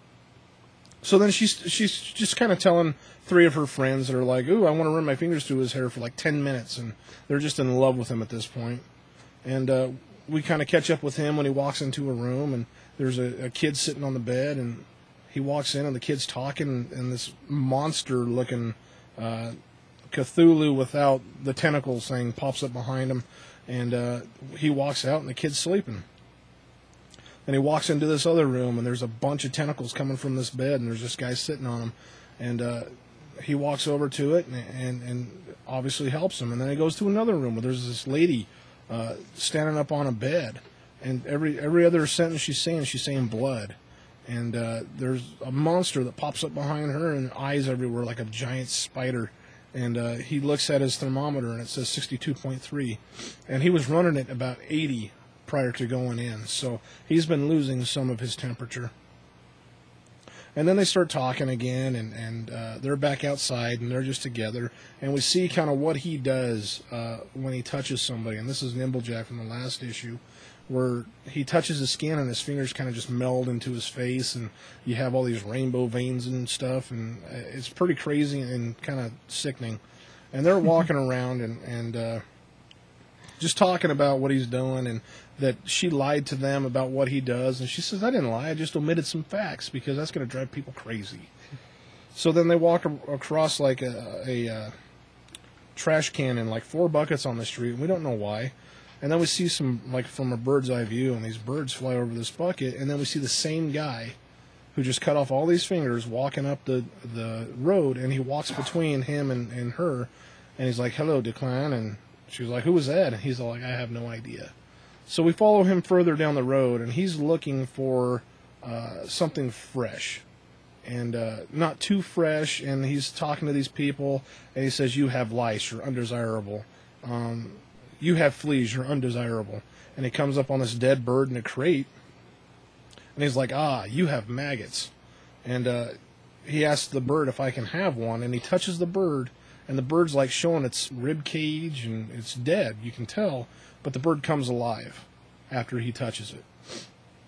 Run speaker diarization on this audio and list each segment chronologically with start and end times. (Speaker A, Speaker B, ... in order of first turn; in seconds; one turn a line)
Speaker A: 1.0-8.8
Speaker A: 9.4-19.6
Speaker A: 20.1-26.1
Speaker A: 27.4-43.8
Speaker A: 44.3-58.9
Speaker A: 60.5-79.8
Speaker A: 80.3-82.2
Speaker A: 83.4-91.3
Speaker A: 92.1-94.7
Speaker A: 95.7-104.2
Speaker A: 104.7-114.5
Speaker A: 115.1-120.2
Speaker A: 120.8-131.9
Speaker A: 133.2-134.9
Speaker A: 135.4-146.5